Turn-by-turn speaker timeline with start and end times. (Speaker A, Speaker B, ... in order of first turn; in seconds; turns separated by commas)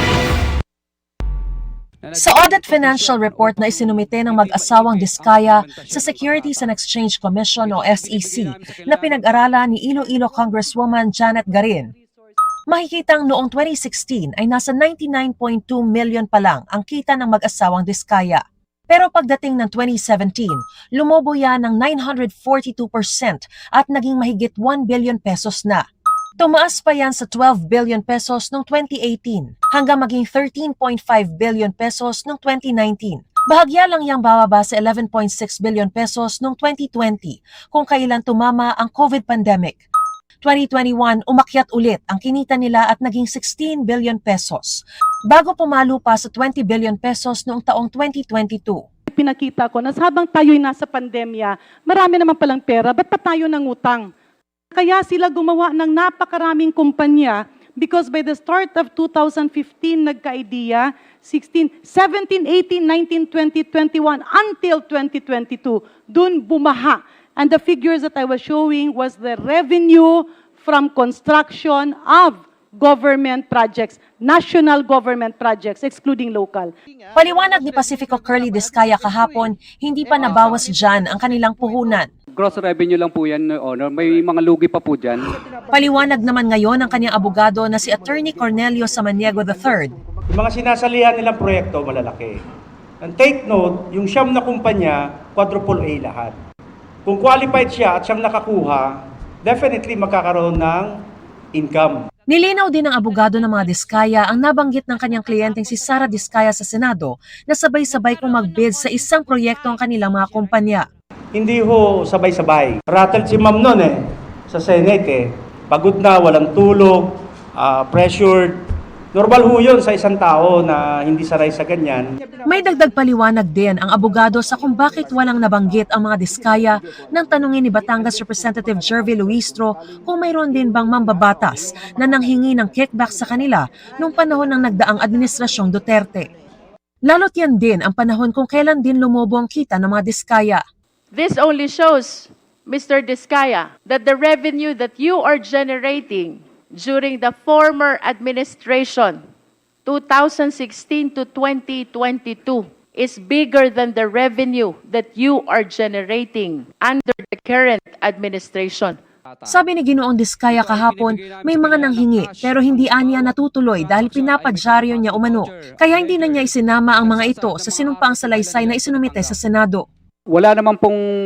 Speaker A: 2.0-6.7, Speaker B: 2.1-11.9, Speaker A: 7.6-9.2, Speaker B: 12.7-25.8, Speaker B: 26.4-39.8, Speaker B: 40.4-48.8, Speaker C: 49.1-54.1, Speaker C: 54.7-76.7, Speaker B: 77.1-82.1, Speaker A: 82.4-85.3, Speaker B: 85.7-89.9, Speaker D: 90.3-92.4, Speaker D: 93.0-96.3, Speaker D: 97.0-98.9, Speaker D: 99.4-100.9, Speaker D: 101.5-102.1, Speaker B: 102.3-110.9, Speaker D: 111.3-118.6, Speaker D: 119.1-122.1, Speaker B: 122.4-136.3, Speaker B: 137.1-140.6, Speaker E: 141.1-149.2, Speaker E: 149.8-159.0, Speaker B: 159.5-169.8, Speaker A: 160.6-163.3, Speaker A: 163.9-166.5, Speaker A: 167.0-169.3, Speaker A: 170.3-171.0